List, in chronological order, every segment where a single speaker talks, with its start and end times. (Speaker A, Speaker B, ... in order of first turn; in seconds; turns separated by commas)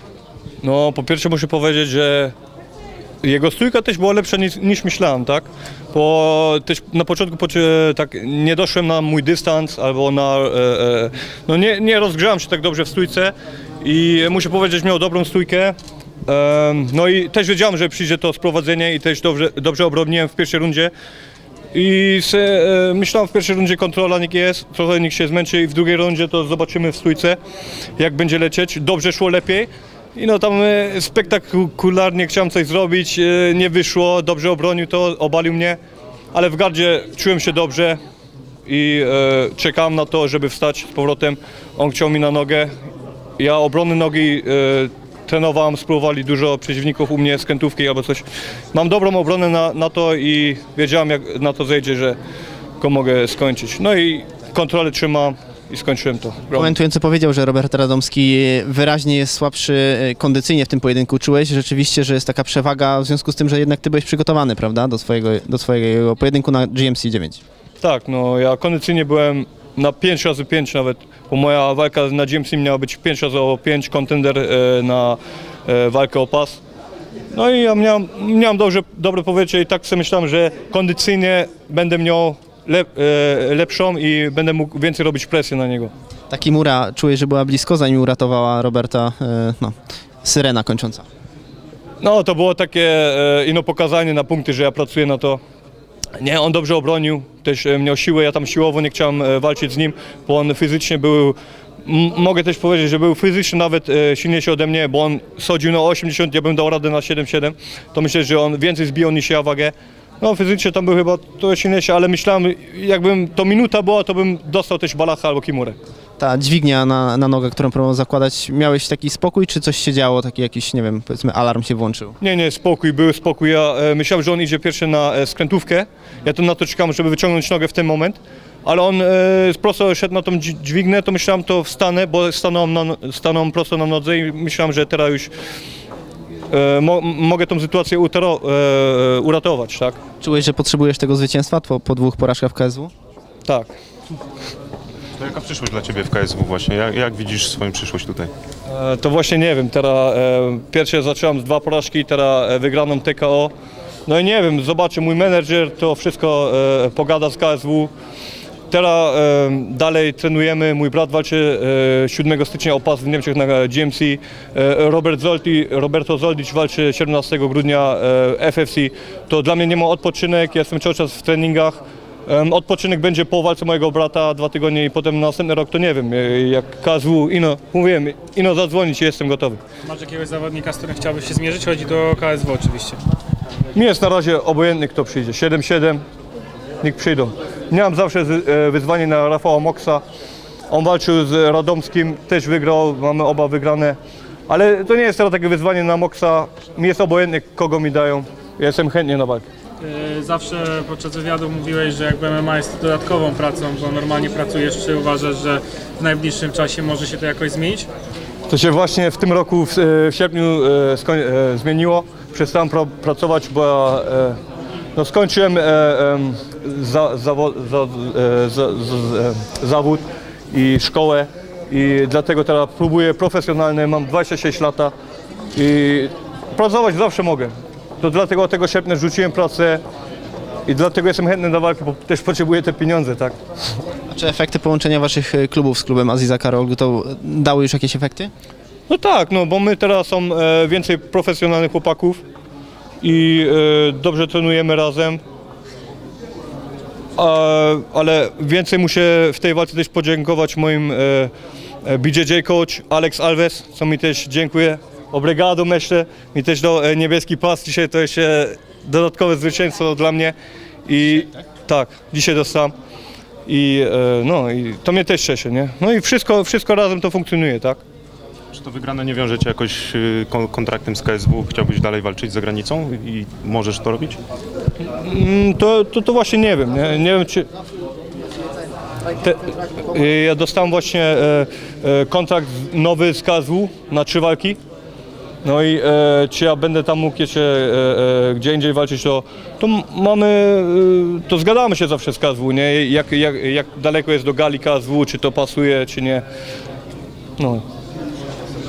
Speaker A: 0.6-2.4, Speaker A: 3.2-20.9, Speaker A: 21.7-27.4, Speaker A: 28.0-35.8, Speaker A: 36.3-38.0, Speaker A: 38.7-42.7, Speaker A: 43.4-52.2, Speaker A: 52.8-56.8, Speaker B: 56.5-67.4, Speaker A: 67.8-76.6, Speaker A: 77.3-85.9, Speaker B: 86.3-91.0, Speaker A: 92.0-95.4, Speaker A: 96.2-115.8, Speaker B: 116.2-122.2, Speaker A: 122.2-135.3, Speaker A: 136.5-140.0, Speaker B: 140.2-142.9, Speaker A: 143.5-143.7, Speaker C: 145.2-148.3, Speaker A: 148.7-153.5, Speaker A: 154.1-157.9, Speaker A: 158.7-179.6, Speaker D: 179.8-183.0, Speaker A: 183.7-186.0, Speaker A: 186.8-190.0, Speaker A: 190.7-199.4, Speaker D: 199.8-207.9, Speaker A: 208.5-214.4, Speaker A: 214.9-224.9, Speaker A: 225.5-229.8, Speaker A: 230.7-233.4, Speaker B: 234.1-238.3, Speaker A: 238.9-242.2, Speaker A: 243.0-245.2, Speaker A: 247.2-251.3, Speaker A: 251.8-260.4, Speaker A: 260.9-262.7, Speaker A: 263.5-267.8, Speaker C: 268.5-274.2, Speaker A: 274.9-277.5, Speaker A: 279.1-284.6, Speaker A: 285.4-296.2, Speaker A: 297.4-297.6